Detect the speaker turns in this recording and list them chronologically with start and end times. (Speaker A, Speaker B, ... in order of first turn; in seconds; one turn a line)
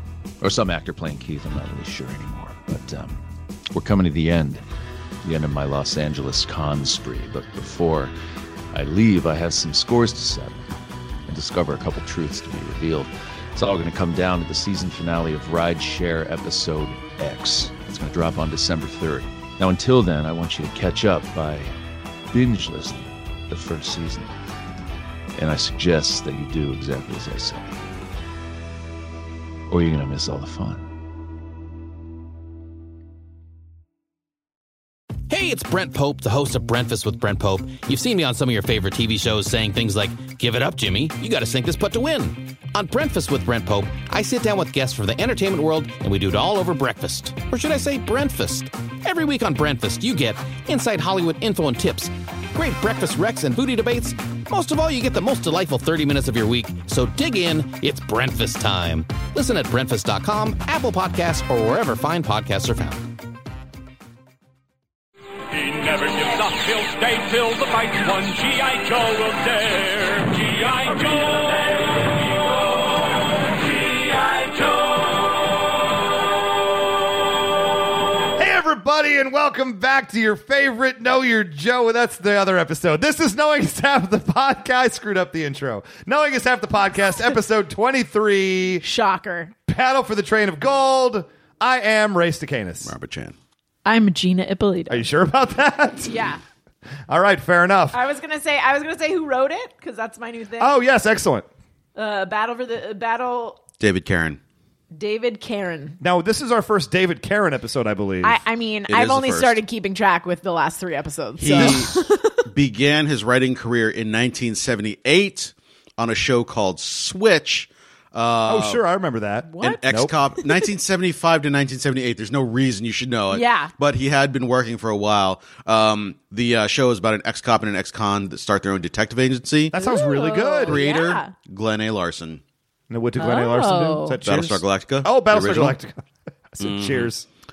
Speaker A: 0.4-3.2
Speaker A: 3.7-4.6
Speaker A: 5.2-8.1
Speaker A: 8.7-10.7
Speaker A: 11.3-21.7
Speaker A: 22.3-24.3
Speaker A: 25.3-27.8
Speaker A: 29.7-30.9
Speaker B: 35.3-63.0
Speaker C: 65.5-72.1
Speaker C: 73.7-74.9
Speaker D: 78.4-88.8
Speaker E: 88.8-89.5
Speaker D: 89.7-92.9
Speaker F: 92.8-93.3
Speaker E: 93.8-95.0
Speaker D: 94.9-96.2
Speaker E: 96.1-96.4
Speaker D: 97.1-98.0
Speaker E: 97.9-100.8
Speaker D: 100.6-101.5
Speaker E: 102.0-103.6
Speaker F: 103.8-104.4
Speaker E: 104.9-106.0
Speaker D: 106.0-108.4
Speaker E: 108.2-112.3
Speaker F: 108.9-109.6
Speaker F: 111.4-118.8
Speaker D: 111.4-111.9
Speaker D: 118.5-120.1
Speaker E: 119.4-119.8
Speaker F: 119.6-129.7
Speaker E: 123.3-123.7
Speaker D: 129.7-130.8
Speaker E: 129.7-131.3
Speaker F: 130.7-132.4
Speaker D: 132.9-137.3
Speaker E: 133.2-134.2
Speaker F: 134.2-135.8
Speaker F: 136.6-137.1